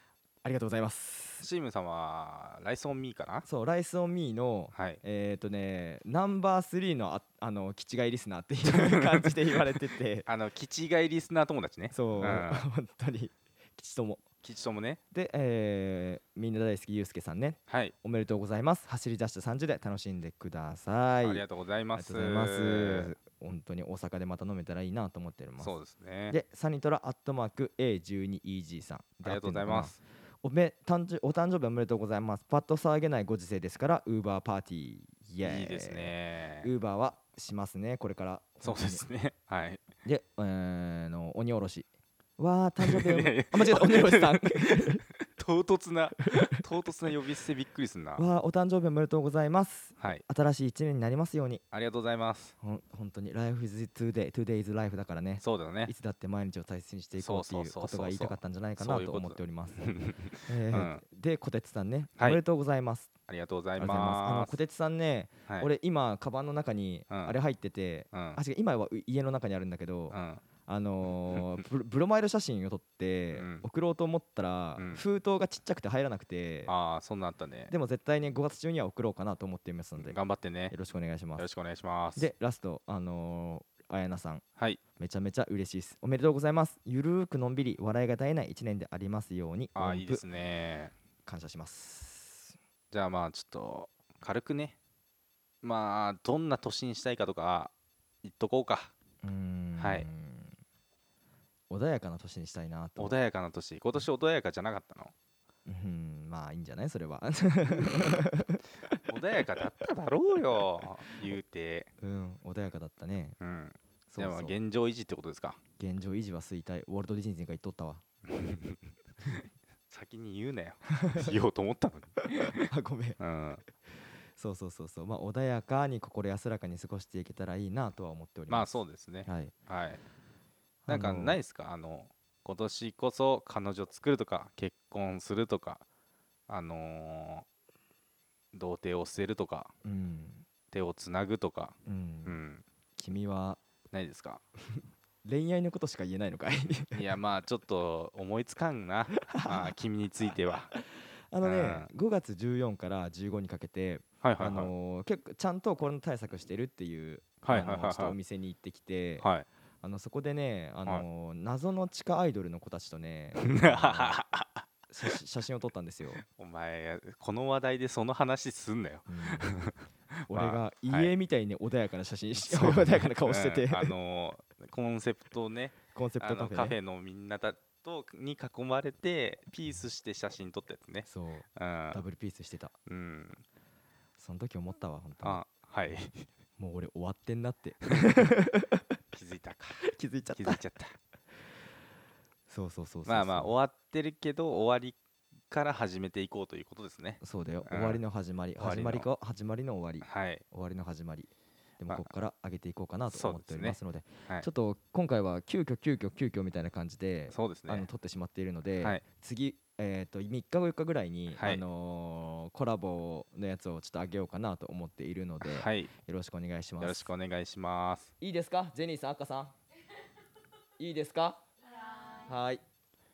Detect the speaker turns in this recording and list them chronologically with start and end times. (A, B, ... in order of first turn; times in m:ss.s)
0:00.4-0:01.5 A
0:01.4-0:03.5 B
0:03.4-0:10.3 A
0:04.7-0:05.0 B
0:08.7-0:09.6 B
0:10.3-0:12.7 B
0:11.9-0:14.2 A
0:14.4-0:15.0 B
0:15.1-0:25.8 A
0:17.7-0:17.9 B
0:21.2-0:23.1 B
0:25.6-0:26.4 B
0:26.3-0:39.0 A
0:29.2-0:30.0 B
0:35.4-0:36.7 B
0:38.6-0:39.8 B
0:40.0-0:45.0 A
0:42.8-0:48.2 B
0:48.2-0:51.6 A
0:51.7-0:52.6 B
0:52.6-0:59.9 A
0:55.4-0:55.9 B
0:57.2-1:01.0 B
1:00.5-1:03.1 A
1:03.3-1:04.6 B
1:03.8-1:16.7 A
1:08.1-1:08.4 B
1:10.1-1:10.4 B
1:13.4-1:13.6 B
1:14.8-1:15.0 B
1:16.7-1:17.7 B
1:17.7-1:20.2 A
1:20.0-1:20.8 B
1:20.7-1:21.5 A
1:21.4-1:22.3 B
1:22.2-1:24.4 A
1:25.0-1:30.2 A
1:29.8-1:30.9 B
1:31.3-1:32.6 A
1:32.9-1:34.8 B
1:35.6-1:37.7 B
1:38.2-1:38.9 B
1:39.2-1:40.6 A
1:39.8-1:40.1 B
1:41.7-1:43.2 A
1:43.0-1:45.1 B
1:45.7-1:48.8 A
1:47.7-1:48.2 B
1:49.1-1:51.9 B
1:52.0-1:53.4 A
1:53.4-1:55.6 B
1:54.1-1:54.6 A
1:55.8-1:58.0 A
1:58.3-2:03.6 B
2:01.0-2:01.3 A
2:02.3-2:03.2 A
2:04.0-2:09.5 A
2:08.5-2:10.0 B
2:10.9-2:11.4 A
2:10.9-2:15.8 B
2:16.5-2:17.5 B
2:18.5-2:19.7 B
2:19.8-2:20.5 A
2:20.7-2:21.8 B
2:21.9-2:22.4 A
2:22.3-2:22.6 B
2:23.0-2:23.6 A
2:23.9-2:24.4 B
2:24.7-2:27.0 A
2:26.9-2:30.7 B
2:29.1-2:29.8 A
2:30.7-2:39.3 A
2:31.4-2:31.9 B
2:34.2-2:34.7 B
2:37.4-2:38.2 B
2:39.2-2:39.5 B
2:39.8-2:44.2 A
2:43.4-2:45.1 B
2:44.9-2:46.2 A
2:46.2-2:51.1 B
2:49.1-2:49.6 A
2:50.3-2:54.0 A
2:52.4-3:02.0 B
2:55.9-2:56.8 A
3:01.1-3:02.8 A
3:02.9-3:03.4 B
3:04.2-3:05.4 A
3:05.2-3:06.3 B
3:06.6-3:08.8 A
3:08.0-3:08.3 B
3:09.1-3:11.0 B
3:09.9-3:10.6 A
3:12.5-3:13.5 A
3:13.1-3:15.0 B
3:15.5-3:18.0 B
3:17.2-3:37.1 A
3:18.6-3:19.1 B
3:20.0-3:20.4 B
3:23.1-3:24.5 B
3:27.3-3:27.9 B
3:31.3-3:31.6 B
3:35.4-3:35.9 B
3:36.8-3:38.1 B
3:38.2-3:39.6 A
3:40.8-3:41.4 A
3:42.2-3:42.6 A